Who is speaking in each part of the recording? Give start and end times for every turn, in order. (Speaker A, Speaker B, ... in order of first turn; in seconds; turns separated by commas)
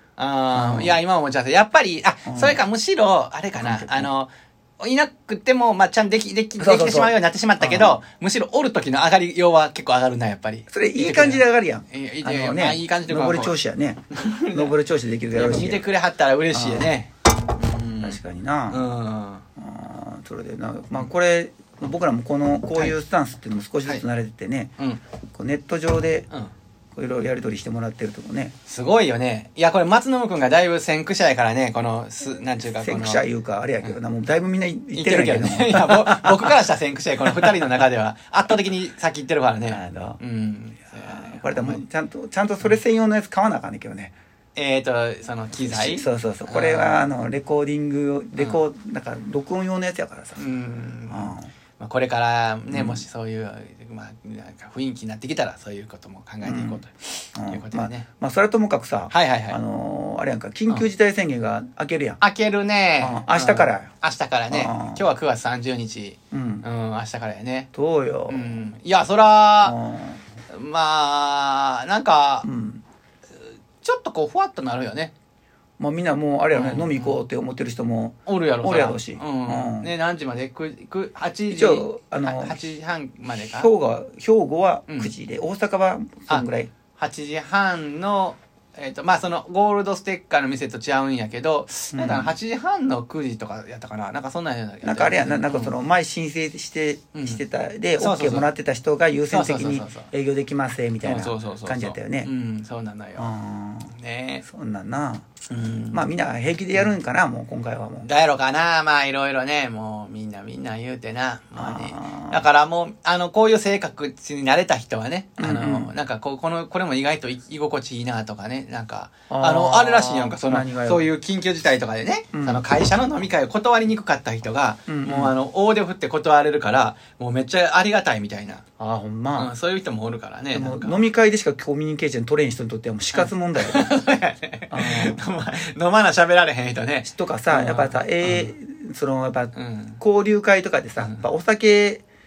Speaker A: 0.2-13.6, Speaker B: 0.5-1.0, Speaker B: 2.3-2.6, Speaker B: 3.6-4.1, Speaker B: 6.6-8.0, Speaker B: 10.7-15.8, Speaker A: 14.1-14.7, Speaker A: 15.3-19.4, Speaker B: 16.5-16.9, Speaker B: 18.0-18.9, Speaker B: 19.6-24.7, Speaker B: 25.3-26.3, Speaker B: 26.9-28.5, Speaker A: 28.6-33.2, Speaker B: 32.6-36.6, Speaker A: 34.9-41.8, Speaker B: 37.2-37.8, Speaker B: 39.7-40.2, Speaker B: 41.0-44.1, Speaker A: 44.5-47.1, Speaker B: 45.6-51.5, Speaker A: 50.4-58.1, Speaker B: 52.7-53.0, Speaker B: 56.4-56.8, Speaker B: 57.3-62.2, Speaker A: 59.1-59.6, Speaker A: 62.2-67.7, Speaker B: 63.0-63.9, Speaker B: 64.5-65.0, Speaker B: 66.3-66.7, Speaker B: 67.7-68.6, Speaker A: 68.3-69.8, Speaker B: 69.6-70.2, Speaker A: 70.5-72.5, Speaker B: 72.4-72.8, Speaker A: 73.8-75.1, Speaker B: 75.8-79.9, Speaker A: 76.5-77.2, Speaker A: 78.2-83.7, Speaker B: 81.5-82.6, Speaker B: 83.4-86.7, Speaker A: 84.9-85.1, Speaker A: 87.0-95.7, Speaker B: 91.9-92.3, Speaker B: 94.8-102.3, Speaker A: 97.1-97.4, Speaker A: 98.0-98.5, Speaker A: 99.3-100.1, Speaker A: 101.0-103.3, Speaker B: 103.2-108.1, Speaker A: 103.9-104.4, Speaker A: 105.5-106.1, Speaker A: 108.0-128.6, Speaker B: 111.6-112.5, Speaker B: 115.4-115.9, Speaker B: 119.3-121.1, Speaker B: 122.3-122.6, Speaker B: 124.9-125.3, Speaker B: 128.8-129.5, Speaker A: 129.4-131.0, Speaker B: 130.5-133.9, Speaker A: 133.1-138.5, Speaker B: 134.7-135.2, Speaker B: 137.0-142.0, Speaker A: 139.5-140.0